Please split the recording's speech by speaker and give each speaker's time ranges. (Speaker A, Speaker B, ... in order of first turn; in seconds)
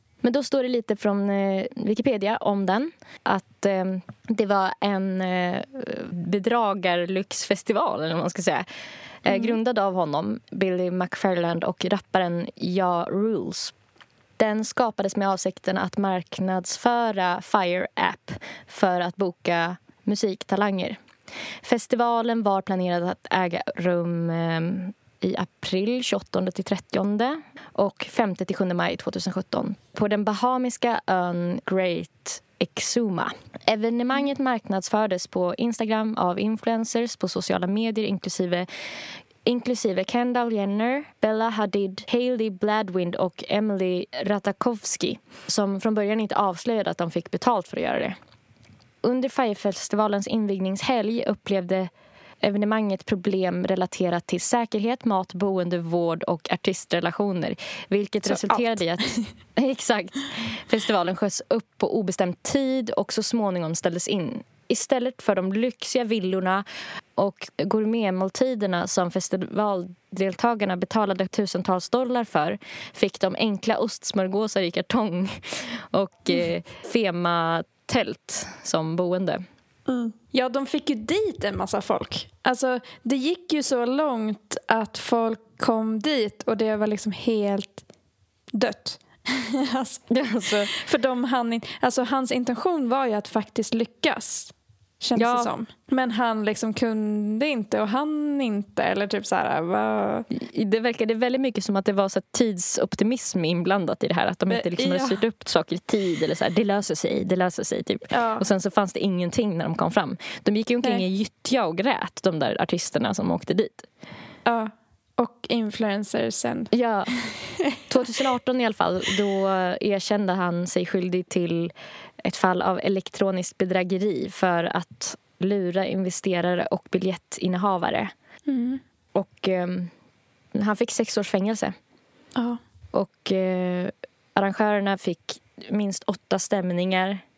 Speaker A: 0.2-8.7, 9.2-13.7, 14.4-21.0, 21.6-38.7, 39.5-48.2, 49.0-51.9, 52.4-79.4, 90.1-90.7, 95.2-95.5, 100.3-113.9, 116.7-117.1, 117.9-128.1, 129.2-129.9, 130.5-131.8, 132.9-137.2
Speaker B: 9.3-9.6, 58.3-59.3, 79.9-87.8, 88.5-90.0, 90.7-100.3, 104.5-105.2, 108.1-108.5, 114.5-116.7, 117.2-117.8, 128.5-128.8